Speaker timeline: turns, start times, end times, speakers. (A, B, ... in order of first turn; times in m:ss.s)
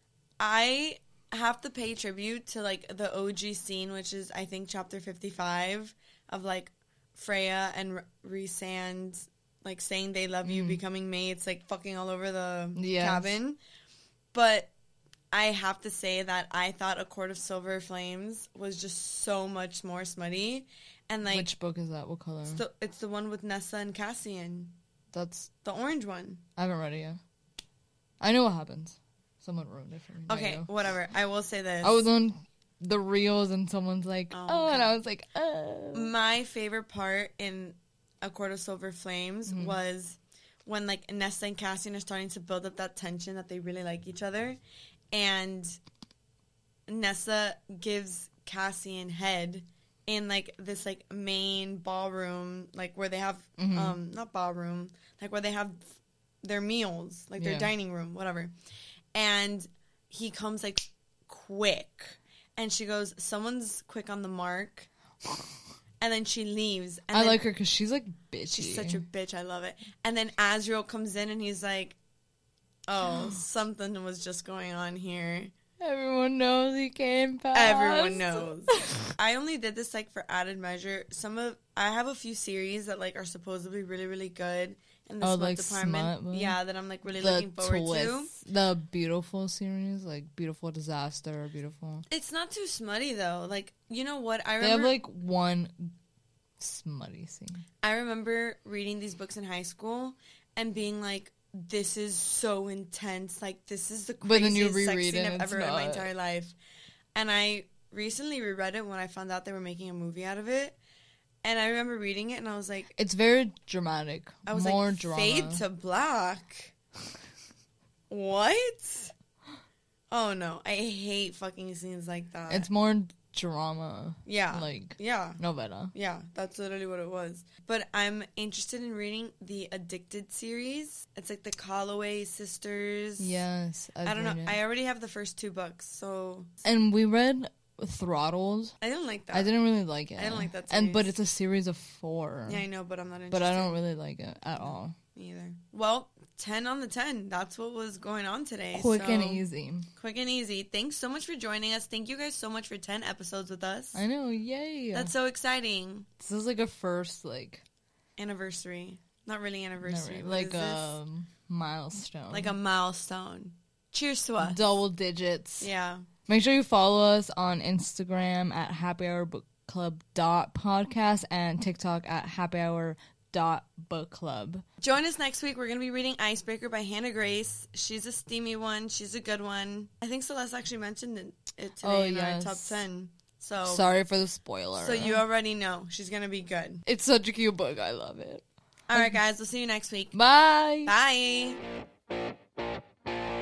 0:00.4-0:13.6 A
0:10.4-0:10.8 B
0:12.8-0:13.4 B
0:14.3-0:14.7 A
0:15.3-0:21.5 A
0:21.2-0:22.6 B
0:22.5-0:24.7 A
0:25.1-0:25.5 B
0:25.6-0:26.4 A
0:26.6-0:27.2 B
0:28.2-0:30.7 B
0:30.3-0:32.1 A
0:31.8-0:36.1 B
0:34.3-0:35.0 A
0:35.9-0:44.6 A
0:39.5-0:39.8 B
0:45.1-0:45.8 A
0:46.9-0:55.9 A
0:53.6-0:54.0 B
0:56.4-0:58.5 A
0:57.4-0:57.7 B
0:59.1-1:04.9 A
1:06.0-1:07.4 A
1:07.1-1:09.0 B
1:08.5-1:12.0 A
1:12.9-1:15.5 A
1:15.8-1:19.0 B
1:17.5-1:28.4 A
1:25.2-1:26.6 B
1:27.2-1:32.1 B
1:32.1-1:35.0 A
1:34.6-1:35.9 B
1:36.6-1:37.6 B
1:37.8-1:46.6 A
1:44.2-1:46.1 B
1:47.2-1:50.8 A
1:51.4-1:53.0 A
1:53.0-1:55.6 B
1:54.5-1:56.7 A
1:58.1-1:59.1 A
2:00.1-2:02.7 A
2:02.5-2:05.9 B
2:04.2-2:05.4 A
2:05.9-2:13.4 A
2:13.2-2:14.6 B
2:14.0-2:16.5 A
2:16.6-2:18.7 B
2:18.8-2:19.5 A
2:19.3-2:22.6 B
2:20.2-2:21.1 A
2:22.5-2:23.8 A
2:23.3-2:25.0 B
2:24.6-2:34.0 A
2:28.7-2:29.9 B
2:34.0-2:35.1 B
2:34.9-2:36.1 A
2:36.2-2:37.6 B
2:38.2-2:41.0 A
2:39.8-2:42.5 B
2:42.3-2:44.7 A
2:44.4-2:45.7 B
2:45.6-2:46.1 A
2:46.3-2:54.6 B
2:54.8-3:03.9 A
3:01.8-3:02.8 B
3:03.6-3:05.2 B
3:04.7-3:06.8 A
3:06.9-3:09.2 B
3:08.9-3:10.2 A
3:10.1-3:10.9 B
3:10.8-3:11.6 A